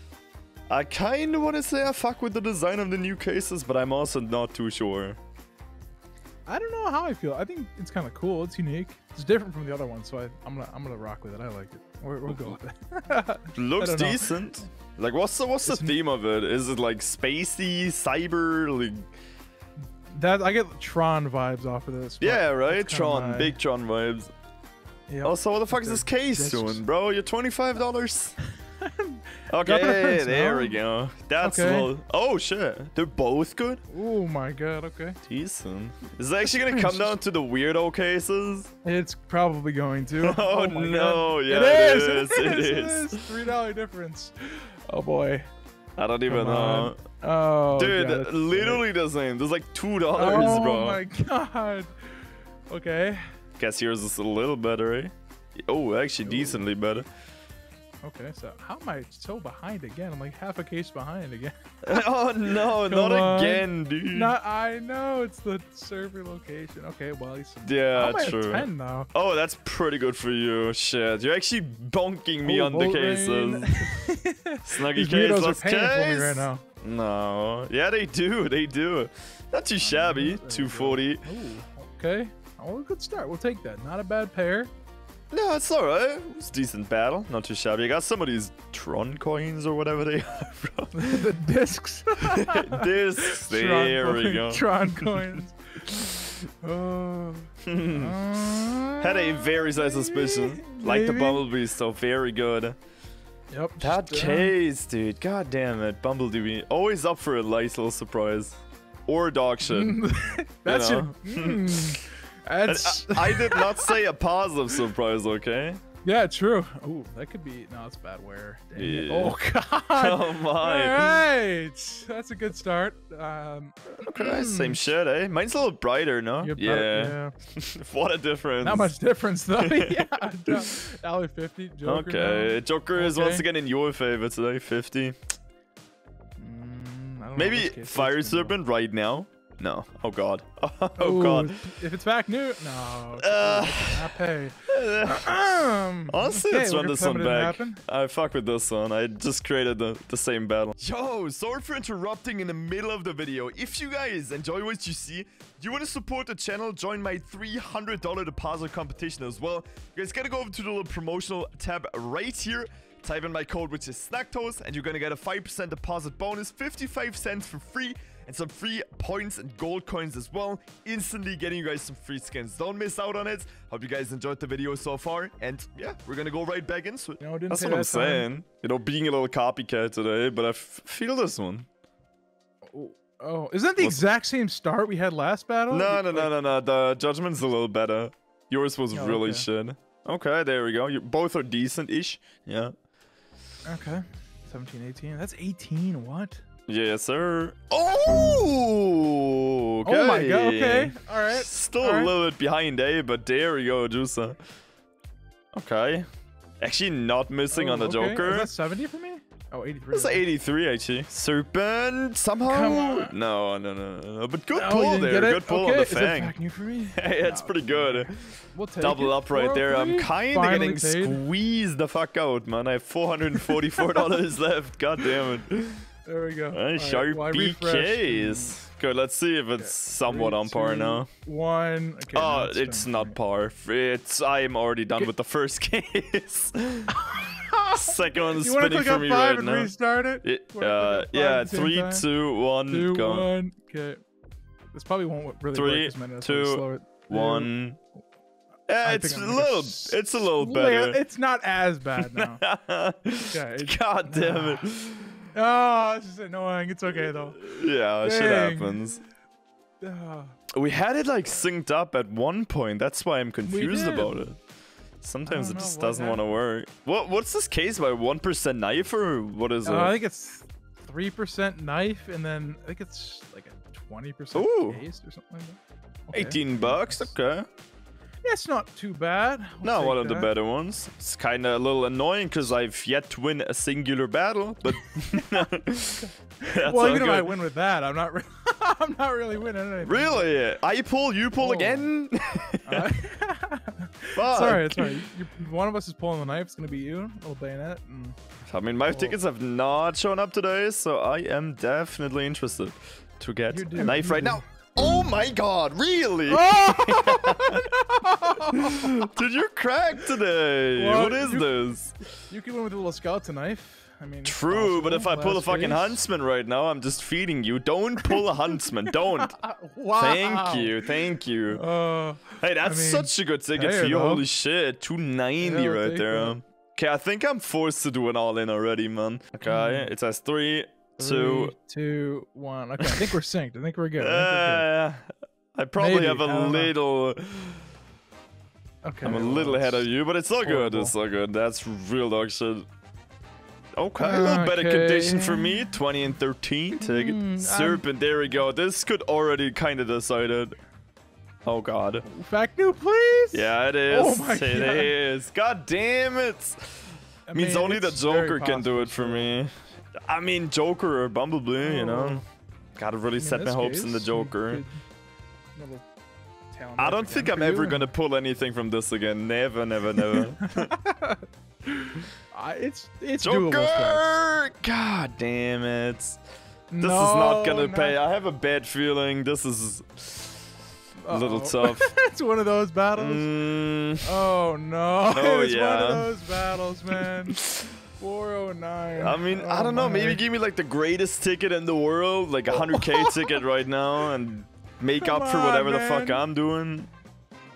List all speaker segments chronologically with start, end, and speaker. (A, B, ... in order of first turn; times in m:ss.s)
0:00.7-0:05.2 A
0:06.4-0:14.4 B
0:13.5-0:19.1 A
0:15.6-0:16.0 B
0:20.1-0:23.6 B
0:22.2-0:24.3 A
0:25.1-0:26.8 B
0:25.2-0:28.3 A
0:28.8-0:30.8 B
0:29.5-0:33.8 A
0:31.4-0:31.9 B
0:33.9-0:35.2 B
0:35.2-0:38.7 A
0:36.5-0:37.1 B
0:38.8-0:45.5 B
0:40.2-0:43.2 A
0:46.0-0:47.0 A
0:46.3-0:48.8 B
0:47.7-0:51.0 A
0:50.1-0:53.2 B
0:53.6-0:57.1 A
0:56.2-0:56.6 B
0:58.0-1:02.0 B
1:01.8-1:04.4 A
1:02.5-1:09.1 B
1:07.6-1:14.0 A
1:12.4-1:16.6 B
1:14.6-1:21.2 A
1:19.8-1:24.7 B
1:25.3-1:31.3 A
1:30.9-1:41.4 B
1:32.3-1:35.4 A
1:37.6-1:42.8 A
1:43.5-1:44.5 B
1:43.8-1:50.0 A
1:49.7-1:54.0 B
1:50.7-1:52.0 A
1:52.6-1:55.8 A
1:56.0-2:04.8 B
1:58.8-1:59.4 A
1:59.9-2:01.2 A
2:04.0-2:08.9 A
2:06.4-2:07.3 B
2:08.6-2:13.4 B
2:09.6-2:10.7 A
2:11.8-2:15.2 A
2:16.4-2:18.6 B
2:17.4-2:21.6 A
2:21.0-2:27.8 B
2:23.2-2:24.0 A
2:24.7-2:25.4 A
2:26.1-3:01.7 A
2:57.2-2:58.3 B
3:02.7-3:06.3 B
3:03.8-3:04.0 A
3:05.7-3:12.7 A
3:08.9-3:09.5 B
3:13.6-3:16.4 B
3:16.7-3:24.4 A
3:19.8-3:22.1 B
3:25.5-3:26.0 A
3:26.6-3:28.5 A
3:27.5-3:30.2 B
3:29.9-3:36.3 A
3:32.5-3:33.1 B
3:34.5-3:41.2 B
3:36.9-3:45.8 A
3:43.5-3:44.1 B
3:46.0-3:48.6 B
3:46.5-3:51.1 A
3:49.6-3:53.2 B
3:52.1-3:56.9 A
3:56.9-4:02.1 B
3:57.7-3:59.7 A
4:00.2-4:03.3 A
4:02.7-4:04.0 B
4:04.7-4:07.5 B
4:05.5-4:07.8 A
4:08.7-4:11.0 A
4:08.8-4:12.4 B
4:12.0-4:15.2 A
4:13.2-4:14.7 B
4:15.3-4:19.0 B
4:17.4-4:19.0 A
4:19.8-4:20.4 B
4:20.5-4:24.4 A
4:23.4-4:24.3 B
4:25.0-4:29.9 A
4:25.2-4:26.3 B
4:29.6-4:37.1 B
4:34.3-4:34.8 A
4:36.1-4:37.5 A
4:38.2-4:40.3 B
4:39.6-4:47.4 A
4:45.1-4:45.5 B
4:46.0-4:50.3 B
4:49.8-4:52.9 A
4:51.4-4:51.9 B
4:52.6-4:58.2 B
4:54.2-4:55.0 A
4:58.5-5:07.7 A
4:58.9-4:59.2 B
5:03.5-5:04.4 B
5:06.3-5:09.0 B
5:08.3-5:11.9 A
5:10.8-5:11.8 B
5:12.3-5:16.0 B
5:14.2-5:19.4 A
5:18.0-5:18.2 B
5:18.9-5:24.2 B
5:20.0-5:21.6 A
5:22.4-5:31.5 A
5:25.4-5:26.4 B
5:29.4-5:29.9 B
5:31.0-5:34.7 B
5:32.8-5:33.1 A
5:34.0-5:37.7 A
5:35.8-5:36.7 B
5:38.8-5:39.9 B
5:39.0-5:42.7 A
5:40.4-5:40.9 B
5:43.8-5:50.6 A
5:44.0-5:45.7 B
5:46.7-5:47.8 B
5:51.4-5:52.0 A
5:52.0-5:55.0 B
5:53.3-6:02.2 A
5:57.3-5:59.4 B
6:01.6-6:02.2 B
6:02.8-6:04.6 A
6:03.2-6:04.8 B
6:05.5-6:05.8 B
6:06.5-6:07.9 B
6:06.8-6:10.7 A
6:10.0-6:14.2 B
6:13.2-6:16.2 A
6:16.7-6:18.0 B
6:16.8-6:20.5 A
6:21.0-6:23.3 B
6:21.1-6:21.9 A
6:23.0-6:24.0 A
6:24.0-6:30.2 B
6:25.1-6:26.3 A
6:26.9-6:27.7 A
6:29.0-6:36.9 A
6:32.5-6:33.4 B
6:35.0-6:36.2 B